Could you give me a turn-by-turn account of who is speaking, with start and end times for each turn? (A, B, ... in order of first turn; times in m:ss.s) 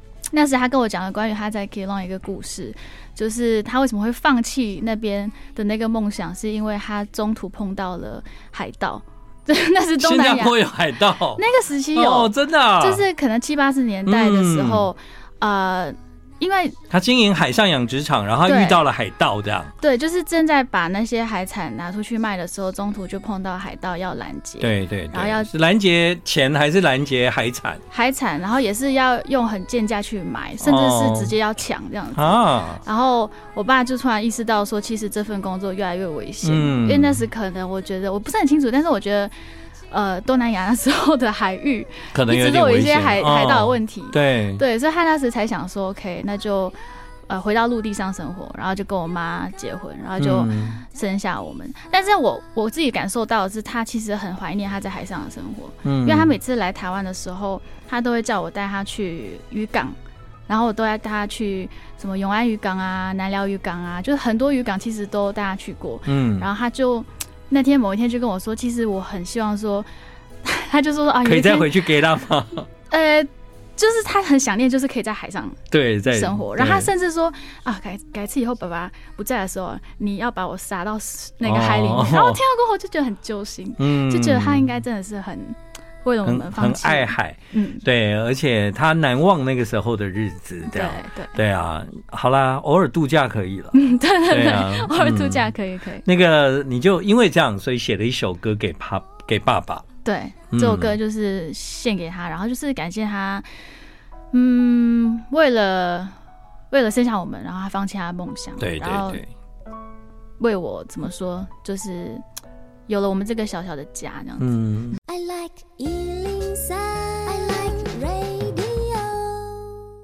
0:00.3-0:10.6 A
0:10.0-0:11.4 B
0:11.4-0:16.8 A
0:11.9-0:13.0 B
0:14.0-0:14.8 B
0:16.9-0:19.7 B
0:18.4-0:18.8 A
0:19.8-0:25.5 A
0:24.6-0:27.8 B
0:27.9-0:39.3 A
0:30.6-0:31.3 B
0:32.1-0:32.8 B
0:36.4-0:37.2 B
0:39.9-0:46.7 A
0:42.1-0:44.6 B
0:47.3-1:00.0 A
0:50.2-0:50.8 B
0:55.8-0:56.3 B
1:00.5-1:09.9 A
1:06.1-1:06.5 B
1:10.4-1:11.7 A
1:11.2-1:12.7 B
1:12.9-1:27.8 A
1:15.7-1:16.9 B
1:21.4-1:22.4 B
1:23.8-1:24.7 B
1:26.2-1:33.7 B
1:30.7-1:31.4 A
1:33.7-1:36.0 A
1:34.3-1:35.5 B
1:36.0-1:39.8 B
1:40.0-1:43.4 A
1:40.5-1:41.0 B
1:44.3-1:46.1 A
1:46.7-1:49.2 A
1:48.6-1:49.3 B
1:50.4-1:52.2 A
1:52.9-1:54.5 A
1:54.4-1:55.0 B
1:55.0-1:59.7 C